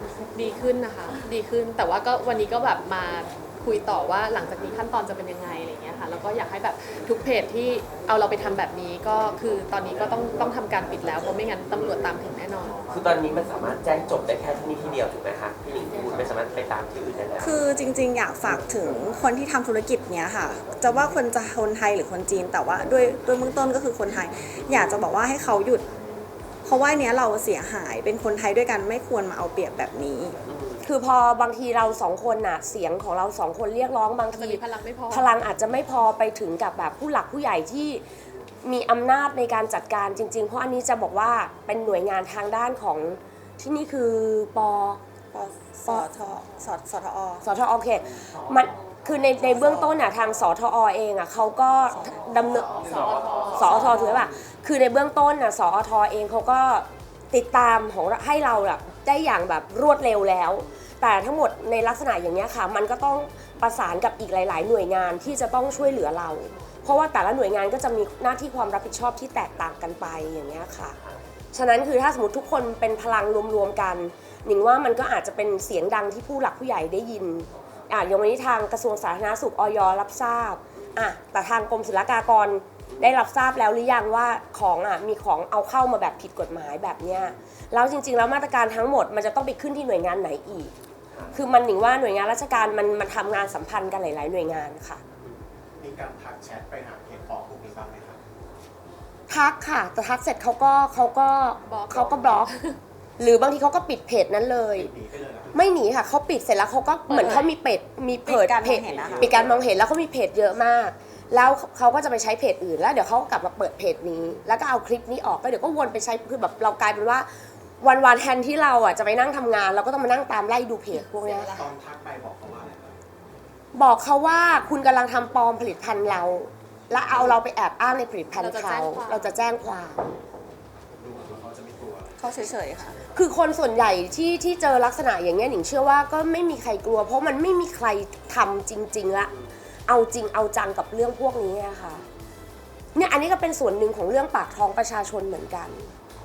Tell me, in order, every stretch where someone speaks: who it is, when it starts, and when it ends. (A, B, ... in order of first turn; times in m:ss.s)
0:00.3-0:12.8 A
0:12.9-0:17.6 B
0:17.4-0:25.8 C
0:26.6-0:30.4 C
0:30.5-0:30.8 B
0:30.8-0:38.0 D
0:34.3-0:35.3 A
0:38.6-0:45.0 D
0:45.3-0:47.5 C
0:47.4-0:52.8 D
0:49.4-0:49.9 C
0:52.5-0:53.5 E
0:52.6-0:54.1 B
0:52.8-0:54.0 A
0:53.5-1:11.0 D
1:10.9-1:11.2 B
1:11.5-1:30.7 D
1:31.1-1:31.4 B
1:31.3-1:35.0 D
1:35.8-1:38.2 E
1:39.3-1:42.5 D
1:41.6-1:42.8 A
1:43.2-1:44.9 D
1:44.7-1:45.6 E
1:45.5-1:57.3 D
1:47.1-1:47.5 A
1:48.2-1:49.4 C
1:48.9-1:49.6 B
1:57.8-2:01.6 D
2:00.9-2:01.7 A
2:01.5-2:03.0 E
2:03.7-2:10.0 D
2:08.4-2:09.3 A
2:11.0-2:12.2 E
2:12.2-2:13.0 C
2:13.1-2:19.3 D
2:19.9-2:22.0 D
2:22.9-2:25.9 D